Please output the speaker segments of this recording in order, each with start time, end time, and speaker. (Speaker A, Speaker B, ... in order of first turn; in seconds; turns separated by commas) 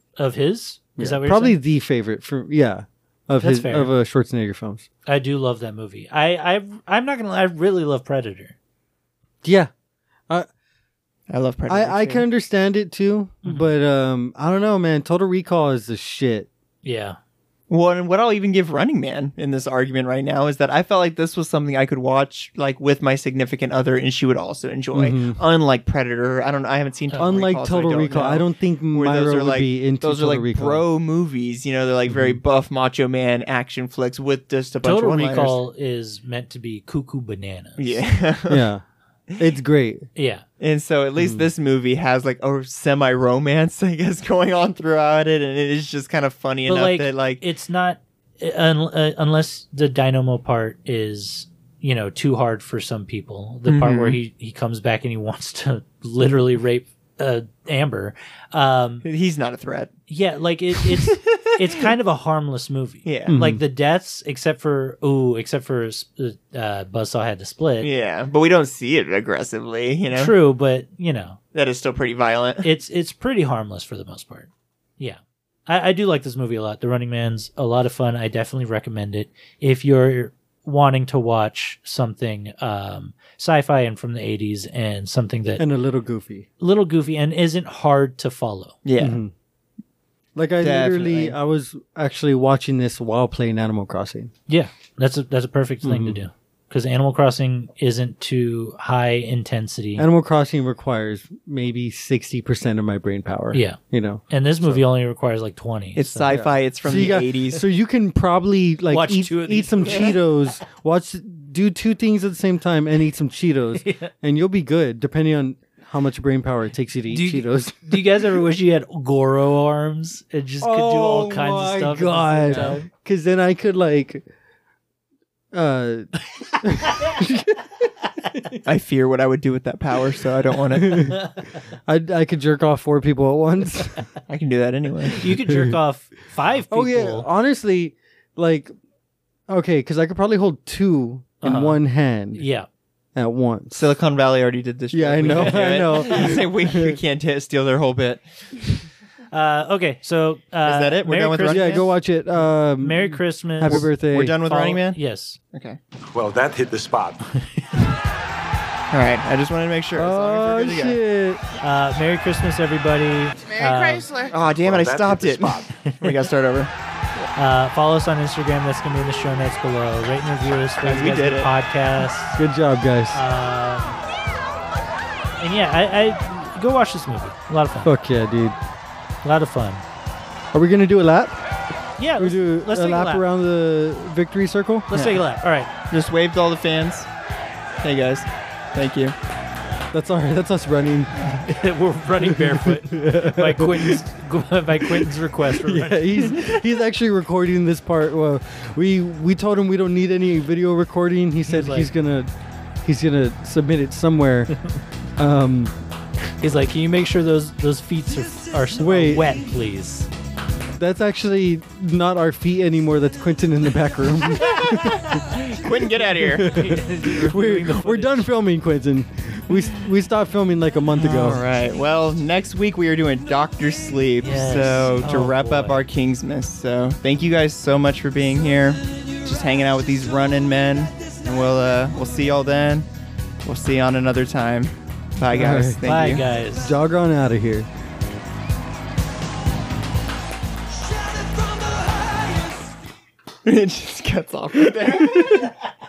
Speaker A: 0.2-1.6, Speaker B: 1.0-4.9, Speaker A: 3.4-3.9, Speaker A: 5.1-8.6, Speaker B: 9.4-9.7, Speaker C: 11.3-12.3, Speaker B: 11.7-16.5, Speaker A: 13.4-13.7, Speaker A: 16.8-17.2, Speaker C: 17.7-35.6, Speaker B: 24.9-25.4, Speaker B: 27.2-30.9, Speaker B: 32.1-32.4, Speaker A: 34.8-38.0, Speaker C: 37.8-38.7, Speaker B: 38.5-38.8, Speaker B: 39.4-40.1, Speaker A: 40.2-40.4, Speaker C: 40.6-47.4, Speaker B: 41.2-41.5, Speaker A: 46.7-59.0, Speaker C: 53.7-54.2, Speaker C: 59.0-59.9, Speaker A: 60.1-67.9, Speaker C: 60.9-61.8, Speaker C: 63.0-63.3, Speaker B: 63.3-63.6, Speaker C: 67.8-70.3, Speaker A: 70.2-71.4, Speaker C: 71.5-72.7, Speaker A: 72.6-85.6, Speaker B: 85.6-86.5, Speaker A: 86.6-88.8, Speaker C: 88.8-89.2, Speaker B: 89.0-89.3, Speaker B: 90.4-94.3, Speaker C: 90.6-91.4, Speaker A: 94.5-100.1, Speaker B: 95.8-96.2, Speaker B: 100.0-104.8, Speaker A: 103.5-103.8, Speaker A: 104.3-106.3, Speaker C: 106.0-107.7, Speaker B: 106.3-118.1, Speaker A: 108.9-110.2, Speaker A: 113.8-114.1, Speaker A: 117.1-122.9, Speaker B: 120.6-124.2, Speaker B: 125.5-127.7, Speaker C: 128.7-131.2, Speaker B: 130.8-131.2, Speaker B: 131.9-134.0, Speaker C: 134.3-135.2, Speaker A: 135.2-137.3, Speaker B: 135.2-135.8, Speaker B: 136.7-138.7, Speaker B: 139.5-142.4, Speaker A: 141.4-141.8, Speaker A: 142.3-142.7, Speaker B: 143.2-143.8, Speaker C: 143.7-148.8, Speaker B: 144.9-147.0, Speaker A: 145.2-146.3, Speaker A: 149.3-151.7, Speaker C: 150.6-151.9, Speaker B: 151.5-154.4, Speaker A: 152.8-155.4, Speaker C: 153.7-155.0, Speaker D: 156.1-157.2, Speaker C: 158.9-161.0, Speaker B: 160.0-161.4, Speaker A: 161.6-164.1, Speaker C: 164.3-166.7, Speaker D: 164.5-165.7, Speaker A: 167.4-172.4, Speaker C: 170.8-171.5, Speaker B: 172.4-173.2, Speaker A: 173.1-174.0, Speaker A: 175.4-177.9, Speaker B: 177.8-178.6, Speaker A: 179.2-179.8, Speaker B: 180.5-181.4, Speaker A: 182.0-183.2, Speaker B: 182.2-184.9, Speaker A: 184.9-185.7, Speaker C: 184.9-185.2, Speaker C: 185.9-187.1, Speaker C: 187.8-189.2, Speaker B: 189.9-191.1, Speaker A: 191.3-196.0, Speaker B: 192.2-194.0, Speaker B: 195.0-202.3, Speaker A: 201.5-201.9, Speaker B: 202.8-204.6, Speaker B: 205.2-205.8, Speaker A: 206.4-210.1, Speaker B: 208.8-209.3, Speaker B: 210.8-215.0, Speaker C: 215.1-216.5, Speaker B: 216.2-221.4, Speaker A: 216.4-218.3, Speaker C: 221.0-232.9, Speaker A: 224.2-225.8, Speaker C: 233.4-236.2, Speaker B: 235.3-235.8, Speaker A: 235.8-236.7, Speaker B: 236.5-237.7, Speaker C: 243.4-245.5